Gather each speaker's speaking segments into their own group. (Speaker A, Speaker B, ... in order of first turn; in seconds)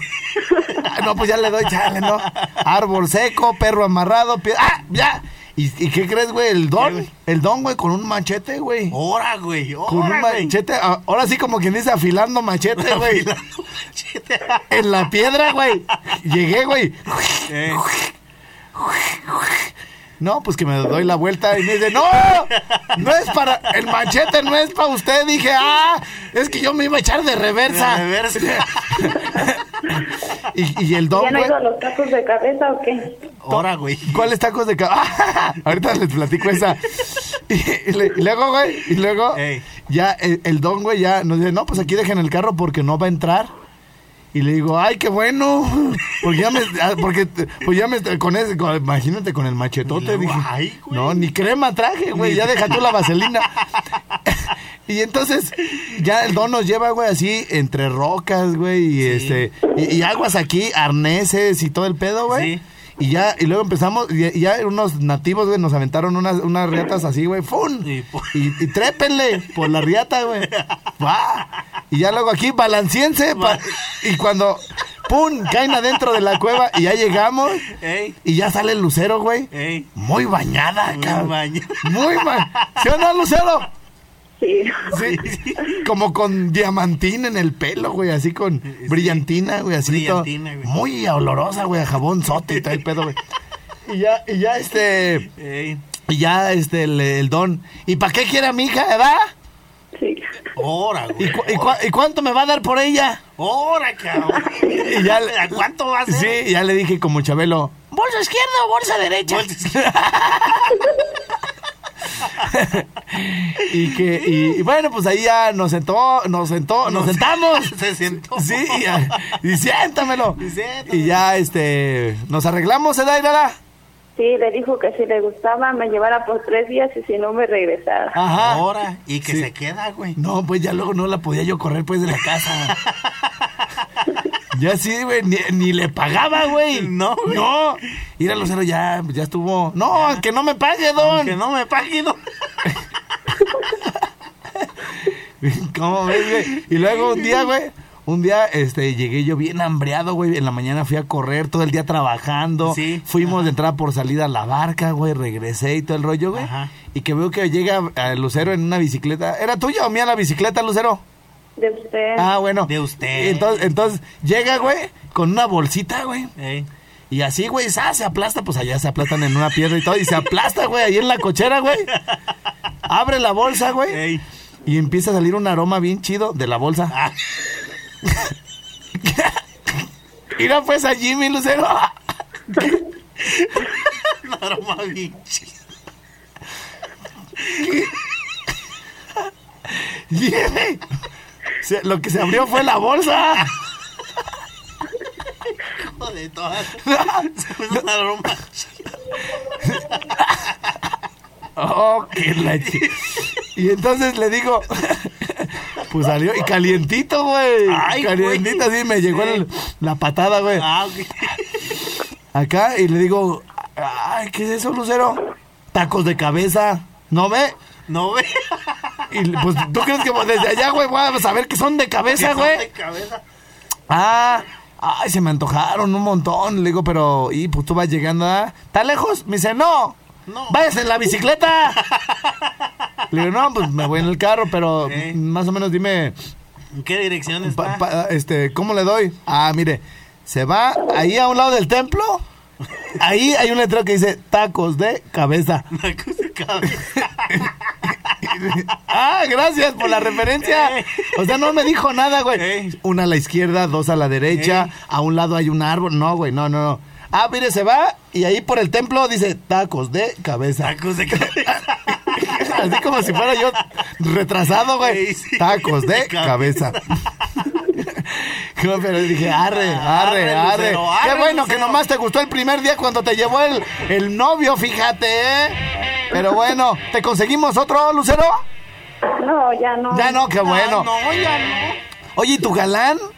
Speaker A: 0.5-0.8, 6.8-7.1, 8.9-10.5, 12.8-14.8, 17.5-17.8, 27.7-29.2, 33.4-34.3, 39.3-39.6, 49.9-51.3, 52.1-53.0, 59.0-59.4, 62.3-62.6, 67.8-68.7, 73.3-73.8, 77.7-78.2, 79.5-79.9, 80.9-82.8, 84.9-85.8, 88.7-89.2, 89.8-90.7, 95.4-95.8, 100.6-101.7, 103.4-106.4, 109.2-109.8, 114.0-114.4, 116.8-119.3, 120.4-121.2, 128.4-130.2, 132.7-133.1, 136.7-137.4, 139.9-140.2, 141.0-142.2, 152.6-153.4, 156.3-156.7, 162.7-163.7, 166.4-166.7, 173.9-174.2, 183.2-185.6, 195.6-199.0, 202.6-202.9, 207.7-209.4, 210.5-211.6, 217.9-219.0, 222.1-223.2, 230.3-230.6, 231.8-232.5, 234.8-235.2, 236.7-237.8, 245.7-247.5, 250.4-251.5, 252.3-252.8, 254.3-254.7, 260.6-262.6, 264.8-267.4, 269.4-271.8, 280.4-281.8
Speaker B: 0.8-9.0, 9.9-13.3, 14.7-18.1, 18.7-29.6, 30.5-31.5, 33.5-43.5, 44.3-53.5, 54.9-77.7, 78.2-83.7, 84.9-85.2, 85.7-93.2, 93.9-95.3, 96.1-99.3, 101.2-103.2, 104.7-110.8, 112.4-117.7, 118.3-123.5, 128.1-128.6, 130.2-132.7, 134.5-141.3, 145.4-161.0, 162.2-166.3, 167.1-171.9, 172.8-174.0, 174.7-176.9, 179.0-179.4, 180.3-181.9, 182.5-182.8, 187.6-187.9, 189.7-190.8, 191.6-193.5, 196.8-197.8, 201.6-202.9, 203.5-210.7, 212.3-217.6, 219.1-222.7, 223.9-230.0, 230.5-231.8, 233.1-236.1, 237.4-242.2, 242.9-245.7, 248.2-266.8, 267.7-275.6, 276.1-278.4, 279.9-280.9, 282.1-283.0
Speaker C: 31.1-33.1, 84.4-85.0, 100.0-100.3, 124.2-128.1, 161.6-162.3, 279.2-280.2